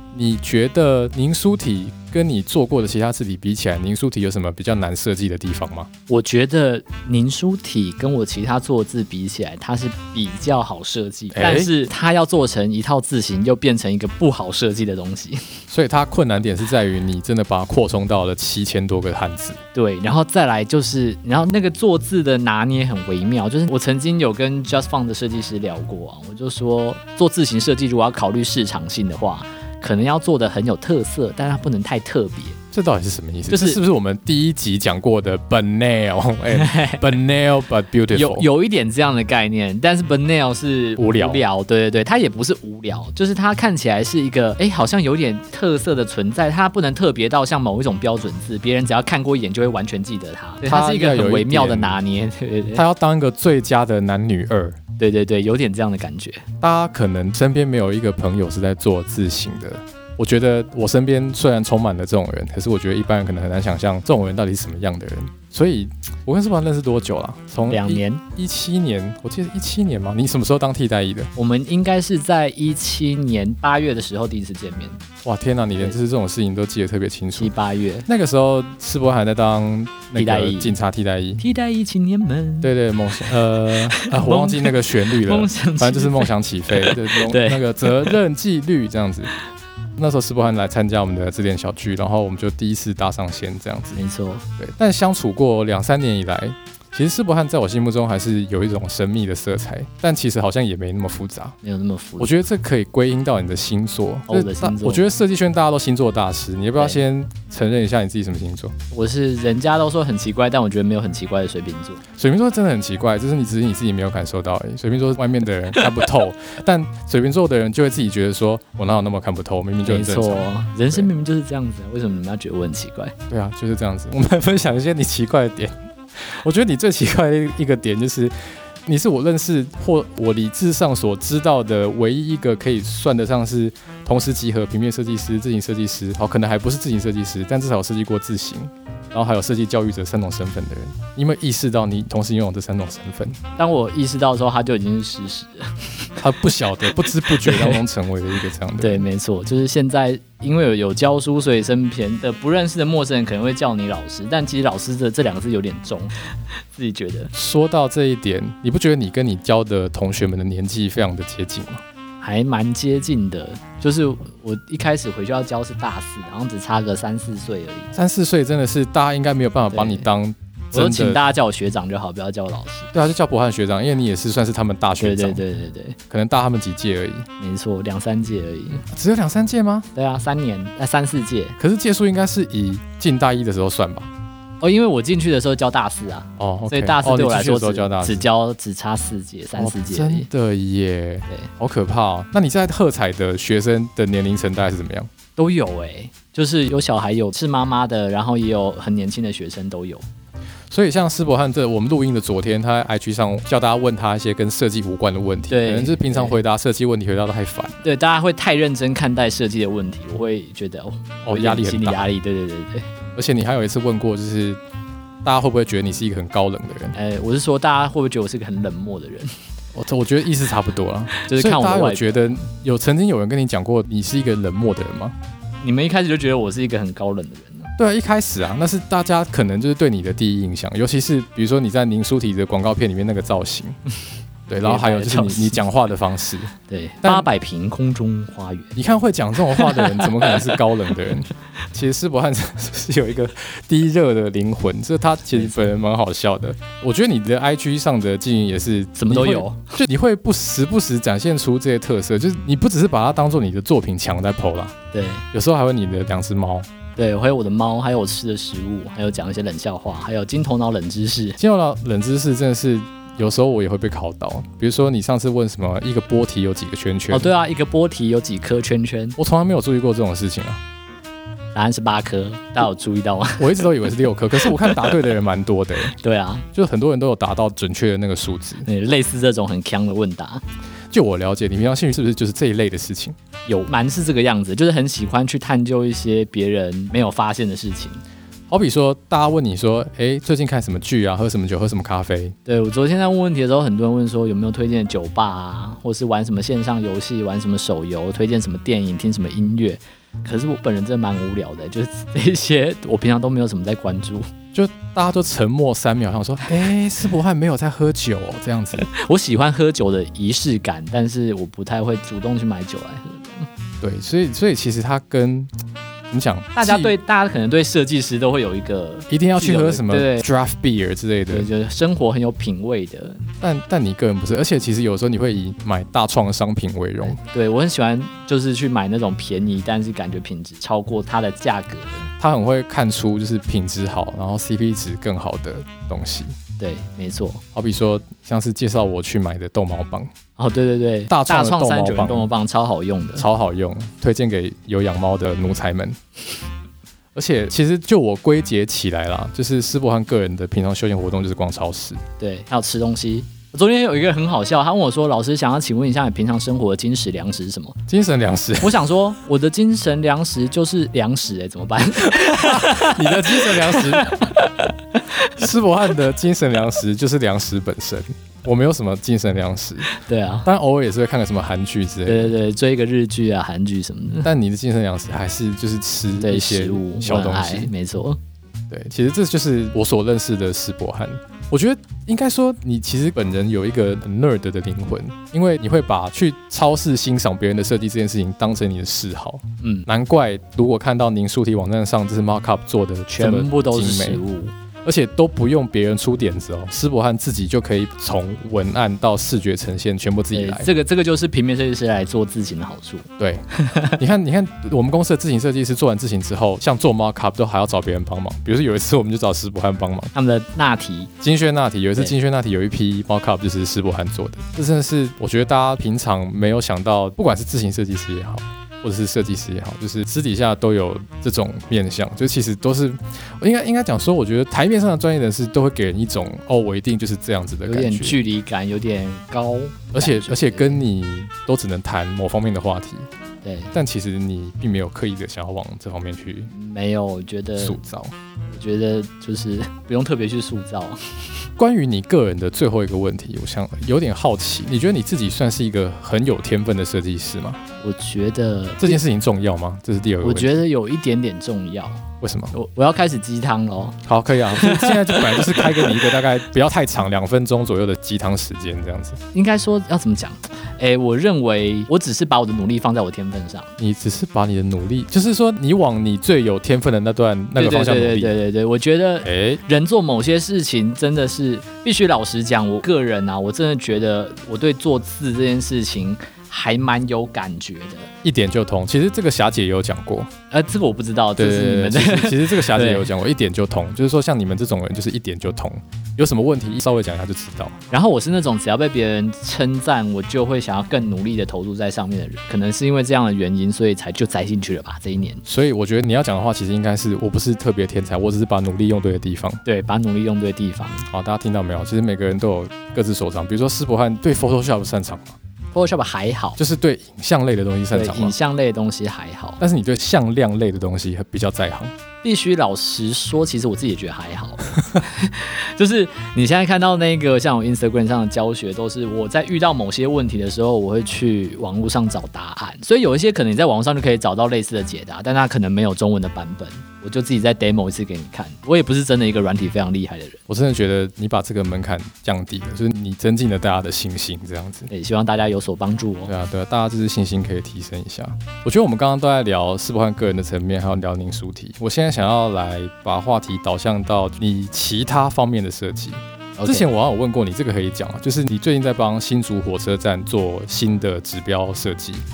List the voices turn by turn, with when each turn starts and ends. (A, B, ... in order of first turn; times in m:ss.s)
0:00.1-0:05.9 A
0:06.1-0:15.6 B
0:11.3-0:11.7 A
0:15.7-0:19.6 A
0:19.7-0:32.6 B
0:32.7-0:38.5 A
0:33.5-0:33.8 B
0:36.5-0:37.0 B
0:38.1-0:52.8 B
0:41.0-0:41.4 A
0:50.6-0:52.0 A
0:52.8-0:54.8 A
0:55.0-0:56.4 B
0:56.6-1:11.3 A
1:07.7-1:08.2 B
1:11.4-1:15.0 B
1:15.2-1:17.5 A
1:17.4-1:18.1 B
1:18.1-1:21.4 A
1:20.2-1:20.8 B
1:21.4-1:28.2 B
1:22.6-1:29.3 A
1:30.0-1:34.0 A
1:34.0-1:34.4 B
1:34.6-1:41.6 A
1:41.6-1:42.3 B
1:42.2-1:48.7 A
1:44.3-1:45.1 B
1:48.9-1:52.0 B
1:52.2-2:01.1 A
1:59.8-2:03.2 B
2:03.3-2:08.3 A
2:08.8-2:23.4 A
2:23.6-2:26.1 B
2:26.2-2:29.0 A
2:27.3-2:27.8 B
2:28.8-2:36.1 B
2:36.7-2:37.3 B
2:37.3-2:41.8 A
2:42.2-2:47.9 B
2:47.9-2:51.2 A
2:49.7-2:50.0 B
2:50.7-2:52.9 B
2:52.9-2:55.4 A
2:55.0-2:56.0 B
2:56.1-2:57.3 A
2:57.4-2:58.8 B
2:58.9-2:59.9 A
3:00.0-3:01.6 B
3:01.6-3:04.1 A
3:04.6-3:10.3 B
3:06.4-3:08.2 A
3:09.6-3:15.1 A
3:15.4-3:20.0 B
3:20.7-3:27.8 A
3:25.5-3:26.4 B
3:27.8-3:32.9 B
3:31.2-3:32.1 A
3:33.2-3:34.6 A
3:35.2-3:37.0 A
3:36.9-3:39.4 B
3:39.7-3:45.2 A
3:41.2-3:42.4 B
3:45.6-3:47.7 B
3:47.8-3:53.8 A
3:54.5-3:57.3 A
3:54.6-3:55.6 B
3:56.7-3:58.8 B
3:58.8-4:14.8 A
3:59.5-4:00.6 B
4:09.0-4:09.8 B
4:14.9-4:15.2 B
4:15.3-4:16.7 A
4:17.0-4:21.4 B
4:21.4-4:27.3 A
4:27.1-4:29.2 B
4:29.2-4:30.6 A
4:31.6-4:33.9 B
4:33.4-4:36.0 A
4:34.4-4:35.0 B
4:36.0-4:36.5 B
4:36.5-4:38.7 A
4:38.6-4:40.4 B
4:40.9-4:43.2 A
4:43.5-4:48.0 B
4:48.5-4:52.4 A
4:52.5-5:04.3 B
5:04.5-5:08.9 A
5:08.8-5:13.5 B
5:13.8-5:15.5 A
5:16.1-5:17.0 A
5:16.6-5:20.2 B
5:19.1-5:21.5 A
5:21.3-5:23.2 B
5:23.4-5:27.2 A
5:27.1-5:32.1 B
5:32.2-5:36.4 A
5:36.6-5:37.4 B
5:37.6-5:40.1 A
5:40.4-5:43.3 B
5:41.1-5:42.3 A
5:43.2-5:46.0 A
5:47.2-5:52.0 A
5:52.2-5:57.8 B
5:57.9-5:58.8 A
5:58.6-6:05.4 B
6:02.1-6:04.2 A
6:05.4-6:09.9 A
6:09.9-6:10.5 B
6:10.4-6:12.4 A
6:12.1-6:14.3 B
6:14.2-6:17.7 A
6:16.2-6:18.2 B
6:18.7-6:34.2 A
6:29.6-6:29.9 B
6:33.1-6:34.5 B
6:34.8-6:40.7 A
6:40.3-6:44.0 B
6:43.2-6:50.1 A
6:50.1-6:51.1 B
6:51.2-7:08.2 A
7:07.6-7:10.8 B
7:09.9-7:13.1 A
7:13.4-7:13.7 B
7:13.7-7:16.5 A
7:16.5-7:17.8 B
7:17.6-7:18.1 A
7:18.5-7:21.5 B
7:21.6-7:27.6 A
7:27.8-7:29.0 B
7:28.8-7:30.6 A
7:30.2-7:36.1 B
7:32.2-7:32.5 A
7:34.0-7:39.2 A
7:39.3-7:43.7 B
7:43.8-7:48.3 A
7:47.6-7:58.1 B
7:49.2-7:49.6 A
7:58.2-8:00.3 A
8:00.5-8:03.1 B
8:01.4-8:07.8 A
8:07.9-8:15.4 B
8:15.5-8:19.6 A
8:19.6-8:21.1 B
8:21.1-8:25.4 A
8:25.7-8:26.6 B
8:26.6-8:28.4 A
8:27.9-8:29.6 B
8:29.6-8:31.9 A
8:32.2-8:50.4 B
8:50.5-8:54.9 A
8:54.9-8:56.3 B
8:56.3-9:12.2 A
9:06.6-9:06.9 B